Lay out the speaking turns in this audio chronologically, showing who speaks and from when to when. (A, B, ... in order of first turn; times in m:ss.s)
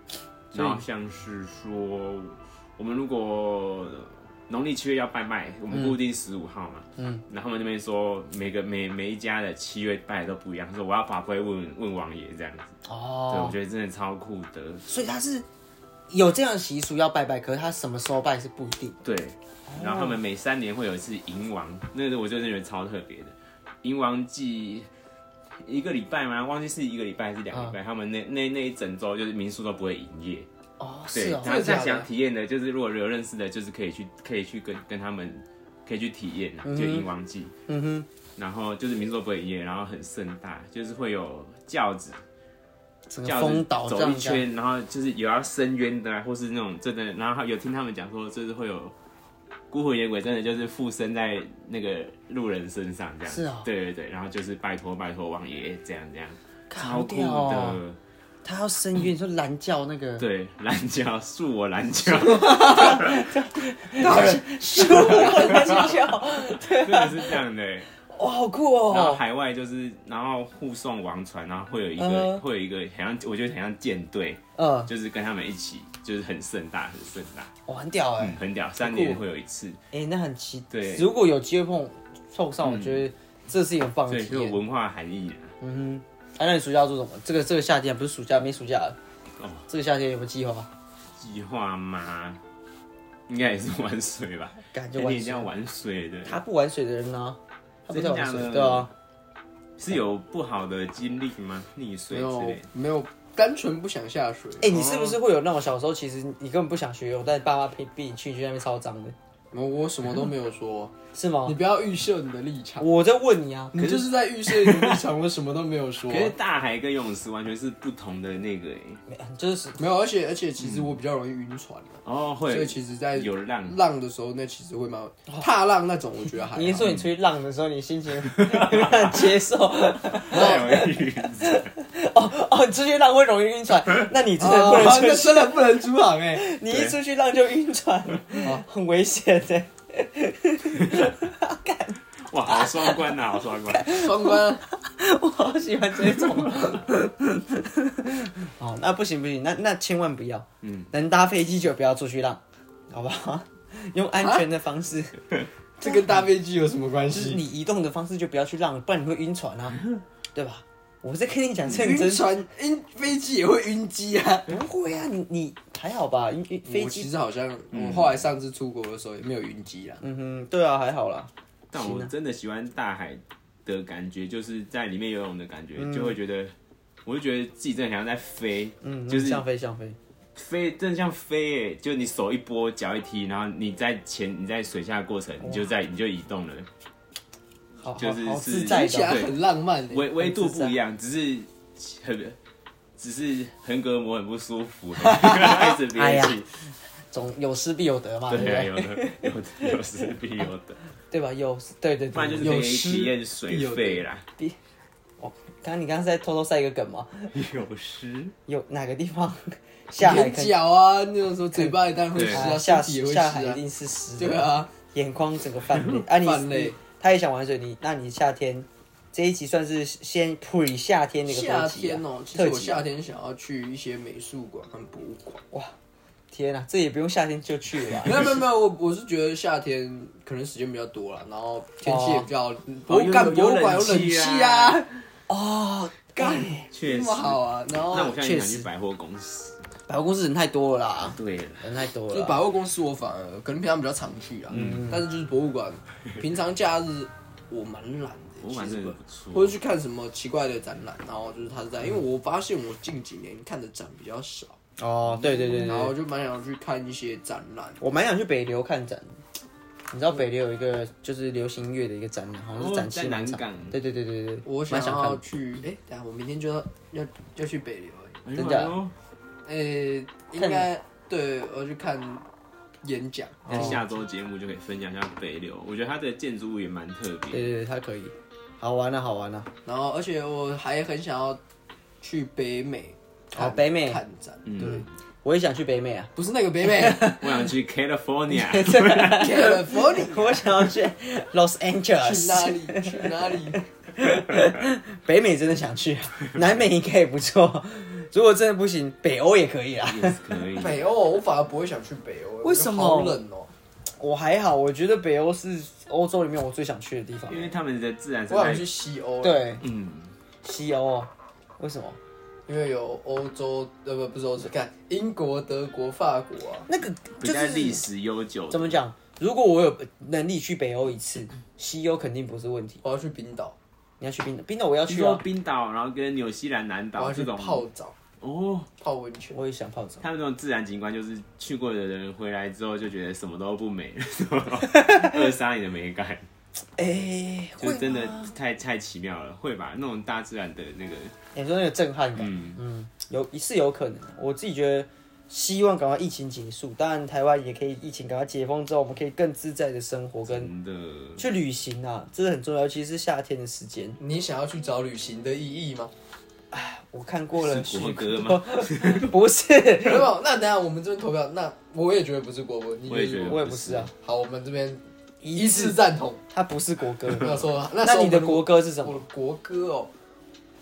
0:00.5-0:12.7 A
0:00.5-0:00.8 B
0:05.7-0:06.0 B
0:07.0-0:07.2 B
0:12.9-0:13.6 B
0:13.3-0:14.8 A
0:14.9-0:15.5 B
0:16.1-0:19.0 B
0:19.0-0:24.9 A
0:19.7-0:20.2 B
0:25.6-0:30.5 A
0:30.8-0:31.7 B
0:31.1-0:37.5 A
0:31.4-0:32.1 C
0:36.6-0:37.1 B
0:37.7-0:38.1 B
0:38.4-0:42.2 A
0:43.1-0:44.4 B
0:43.2-0:49.0 A
0:49.7-0:58.0 A
0:53.3-0:53.7 B
0:56.7-0:57.8 B
0:58.4-1:00.3 B
1:00.2-1:03.3 A
1:02.2-1:07.4 B
1:04.0-1:07.9 A
1:08.1-1:09.2 B
1:08.9-1:17.5 A
1:12.0-1:12.4 B
1:14.6-1:14.9 B
1:17.7-1:18.4 B
1:18.2-1:19.8 A
1:18.8-1:19.2 C
1:19.9-1:24.6 B
1:20.7-1:21.1 A
1:22.6-1:23.1 A
1:24.1-1:25.5 A
1:25.6-1:29.0 B
1:29.4-1:29.7 A
1:29.7-1:30.7 B
1:31.2-1:32.4 A
1:33.3-1:36.4 A
1:34.7-1:35.5 B
1:36.3-1:38.9 B
1:37.9-1:38.9 A
1:39.8-1:42.6 A
1:42.1-1:44.8 C
1:44.6-1:49.2 B
1:44.7-1:45.2 A
1:49.5-1:50.9 C
1:51.1-1:51.6 B
1:51.4-1:52.9 C
1:52.8-1:53.8 B
1:53.7-1:56.4 C
1:53.8-1:55.0 A
1:56.1-1:59.0 A
1:59.1-1:59.8 B
1:59.8-2:06.9 C
2:00.6-2:00.9 A
2:02.0-2:03.8 A
2:06.5-2:15.6 B
2:08.2-2:09.3 A
2:10.2-2:11.7 A
2:10.3-2:10.7 C
2:14.4-2:16.4 C
2:16.4-2:23.2 B
2:16.7-2:17.0 A
2:22.3-2:24.1 A
2:23.7-2:35.2 B
2:23.9-2:24.6 C
2:26.2-2:26.8 A
2:30.6-2:30.9 A
2:35.8-2:37.4 C
2:35.8-2:36.2 B
2:37.1-2:39.8 B
2:40.3-2:42.3 B
2:41.6-2:44.5 C
2:44.5-2:47.1 B
2:46.6-2:50.0 C
2:47.7-2:48.2 A
2:50.0-2:52.1 B
2:51.7-2:56.5 A
2:55.8-2:56.2 B
2:57.0-2:59.4 A
2:58.8-3:00.0 B
3:00.4-3:06.7 A
3:07.8-3:09.2 B
3:08.0-3:09.4 A
3:08.6-3:10.1 C
3:09.9-3:12.4 A
3:10.2-3:10.8 B
3:13.0-3:16.5 A
3:15.1-3:16.4 B
3:17.1-3:19.3 B
3:18.3-3:20.8 A
3:21.1-3:22.6 B
3:22.1-3:24.2 A
3:22.4-3:24.0 C
3:25.2-3:27.3 B
3:27.3-3:28.4 A
3:28.5-3:30.6 B
3:30.0-3:33.6 C
3:31.6-3:42.8 B
3:32.2-3:32.5 A
3:34.2-3:34.7 C
3:36.1-3:36.8 C
3:41.3-3:45.4 C
3:46.3-3:48.3 B
3:48.0-3:54.9 C
3:51.8-3:52.3 B
3:52.9-3:54.8 A
3:55.3-3:56.7 B
3:56.2-3:58.2 C
3:56.7-3:59.6 A
3:58.0-3:58.7 B
3:59.9-4:02.4 B
4:01.1-4:01.7 A
4:02.1-4:14.6 C
4:04.5-4:05.0 B
4:04.5-4:04.9 A
4:08.4-4:09.6 A
4:14.8-4:16.0 B
4:15.2-4:15.5 A
4:15.6-4:17.8 C
4:17.8-4:19.2 B
4:19.9-4:25.2 B
4:22.6-4:23.8 A
4:24.5-4:28.2 C
4:28.2-4:28.9 A
4:28.3-4:28.8 B
4:29.4-4:32.2 C
4:30.4-4:30.7 B
4:32.8-4:33.9 C
4:33.5-4:33.8 B
4:33.5-4:37.5 A
4:37.3-4:39.5 B
4:39.6-4:41.4 C
4:42.0-4:44.8 C
4:43.3-4:44.0 B
4:44.5-4:44.9 A
4:44.6-4:46.1 B
4:46.2-4:47.1 C
4:46.7-4:47.4 B
4:47.2-4:49.4 A
4:48.3-5:00.2 B
4:49.1-4:50.4 C
4:52.0-4:53.6 C
4:59.9-5:00.8 A
5:00.6-5:03.5 C
5:02.4-5:03.2 B
5:04.0-5:07.5 B
5:07.3-5:08.7 A
5:08.3-5:09.5 C
5:09.2-5:09.6 B
5:09.6-5:10.1 A
5:10.4-5:12.0 B
5:12.5-5:16.7 C
5:16.7-5:17.8 B
5:17.2-5:18.8 A
5:18.5-5:22.8 B
5:22.8-5:23.6 C
5:24.0-5:25.2 B
5:24.9-5:27.6 A
5:27.0-5:28.0 C
5:28.2-5:28.7 A
5:28.8-5:29.4 C
5:29.3-5:30.0 B
5:30.0-5:36.3 A
5:36.8-5:38.3 B
5:37.6-5:41.2 A
5:41.4-5:50.5 B
5:42.2-5:42.6 A
5:50.3-5:51.2 A
5:51.2-5:54.0 B
5:54.0-5:55.9 C
5:56.5-6:00.1 B
5:57.4-5:59.1 A
5:59.8-6:03.4 C
6:02.9-6:03.9 A
6:03.2-6:03.9 B
6:04.0-6:04.8 C
6:05.2-6:09.0 B
6:05.3-6:06.2 C
6:07.1-6:09.9 C